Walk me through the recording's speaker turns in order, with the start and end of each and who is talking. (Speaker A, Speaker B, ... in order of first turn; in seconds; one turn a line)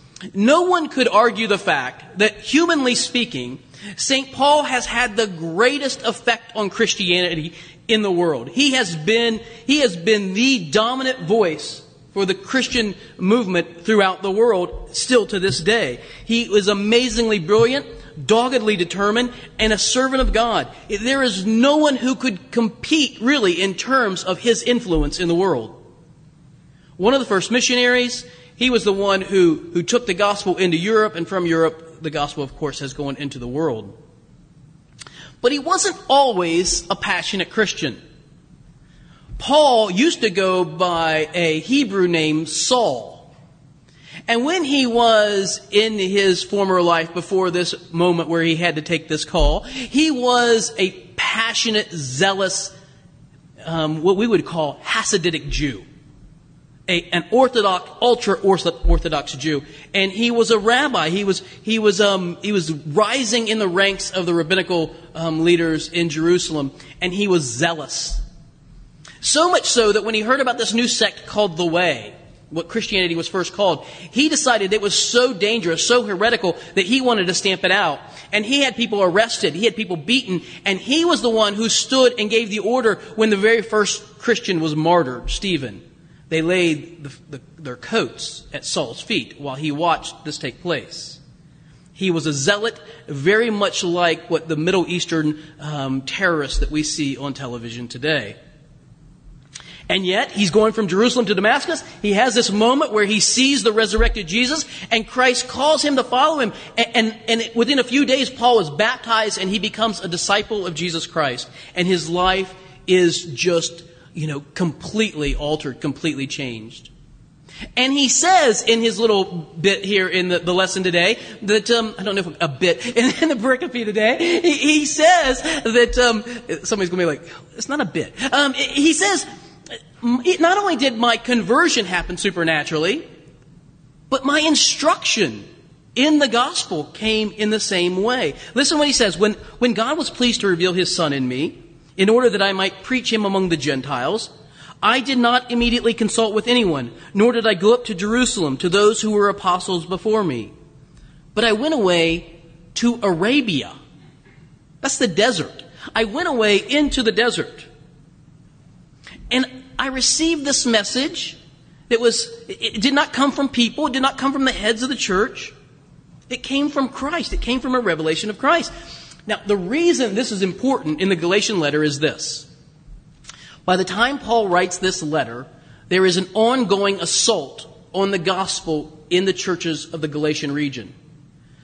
Speaker A: 0.3-25.8
Speaker A: 27.0-33.9
Speaker A: 35.4-38.0
Speaker A: 39.4-43.3
Speaker A: 44.3-52.8
Speaker A: 53.6-55.8
Speaker A: 56.9-68.2
Speaker A: 69.2-91.2
Speaker A: 92.0-98.4
Speaker A: 99.9-116.9
Speaker A: 117.8-129.2
Speaker A: 130.0-133.0
Speaker A: 134.1-144.3
Speaker A: 144.8-150.5
Speaker A: 151.3-153.7
Speaker A: 154.8-157.7
Speaker A: 159.3-161.4
Speaker A: 161.9-165.5
Speaker A: 166.3-168.7
Speaker A: 169.3-172.5
Speaker A: 173.7-180.9